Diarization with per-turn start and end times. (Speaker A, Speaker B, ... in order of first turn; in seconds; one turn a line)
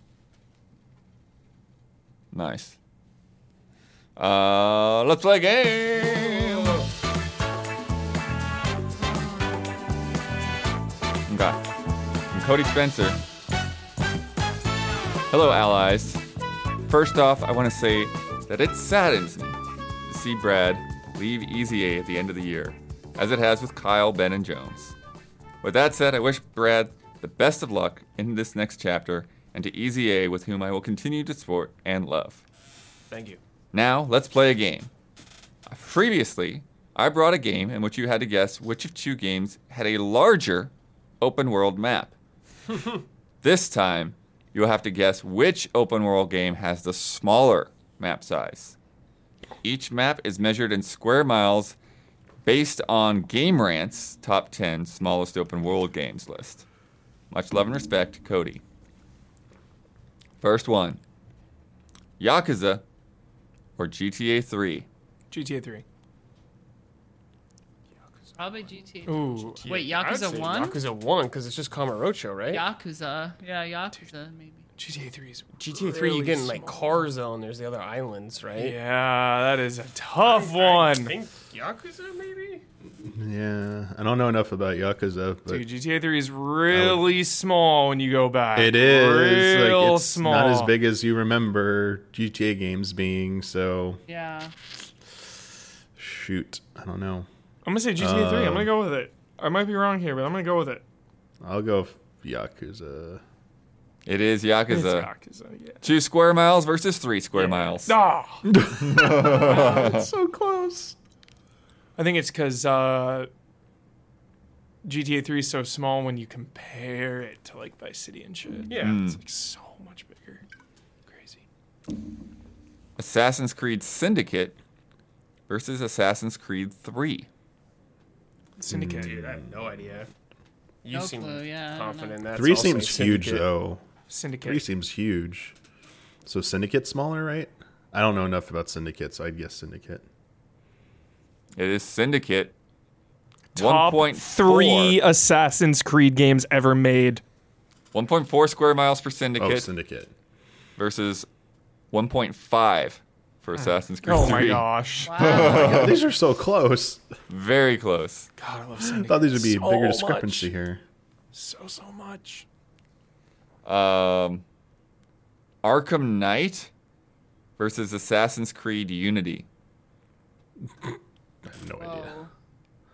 Speaker A: 2.3-2.8
Speaker A: 4.2-6.9
Speaker A: 11.3-11.6
Speaker A: 12.3-13.2
Speaker A: 15.3-16.2
Speaker A: 16.9-24.9
Speaker A: 25.6-32.4
Speaker B: 33.1-33.4
Speaker A: 33.7-34.9
Speaker A: 35.7-42.1
Speaker B: 42.7-43.0
Speaker A: 43.4-48.8
Speaker A: 49.6-51.8
Speaker A: 52.5-56.7
Speaker A: 57.3-58.6
Speaker A: 60.4-61.0
Speaker A: 62.2-62.8
Speaker A: 63.8-64.9
Speaker C: 65.3-65.8
Speaker D: 68.4-70.8
Speaker C: 69.1-70.4
Speaker B: 69.6-72.6
Speaker D: 72.5-74.7
Speaker C: 74.8-77.0
Speaker B: 75.6-78.8
Speaker C: 78.5-81.2
Speaker B: 80.2-82.6
Speaker E: 83.0-85.7
Speaker C: 85.5-90.7
Speaker E: 86.7-87.1
Speaker E: 88.5-94.0
Speaker D: 94.1-94.5
Speaker E: 96.0-97.3
Speaker C: 97.7-100.8
Speaker E: 98.0-98.7
Speaker E: 101.4-103.2
Speaker A: 104.1-105.1
Speaker C: 104.7-105.8
Speaker A: 105.8-110.1
Speaker C: 107.4-108.5
Speaker E: 108.8-111.0
Speaker C: 112.0-113.3
Speaker C: 114.8-120.4
Speaker B: 118.7-119.0
Speaker A: 118.8-119.2
Speaker C: 121.1-121.4
Speaker A: 123.0-124.6
Speaker A: 125.5-127.3
Speaker C: 128.6-129.2
Speaker E: 128.7-129.7
Speaker B: 128.9-130.1
Speaker B: 130.8-133.5
Speaker D: 130.9-132.2
Speaker E: 132.3-133.8
Speaker C: 134.1-134.6
Speaker E: 134.4-135.6
Speaker E: 136.3-140.1
Speaker A: 141.6-142.6
Speaker C: 143.6-147.2
Speaker A: 143.6-145.0
Speaker A: 147.9-149.7
Speaker E: 149.4-150.1
Speaker A: 150.8-151.3
Speaker A: 151.9-156.0
Speaker C: 154.0-155.6
Speaker D: 155.1-155.9
Speaker E: 155.4-157.0
Speaker A: 157.3-158.3
Speaker C: 158.4-160.5
Speaker E: 158.8-160.8
Speaker C: 161.3-162.4
Speaker A: 163.7-164.4
Speaker A: 165.6-166.7
Speaker A: 167.6-169.5
Speaker E: 171.5-172.2
Speaker D: 171.8-172.3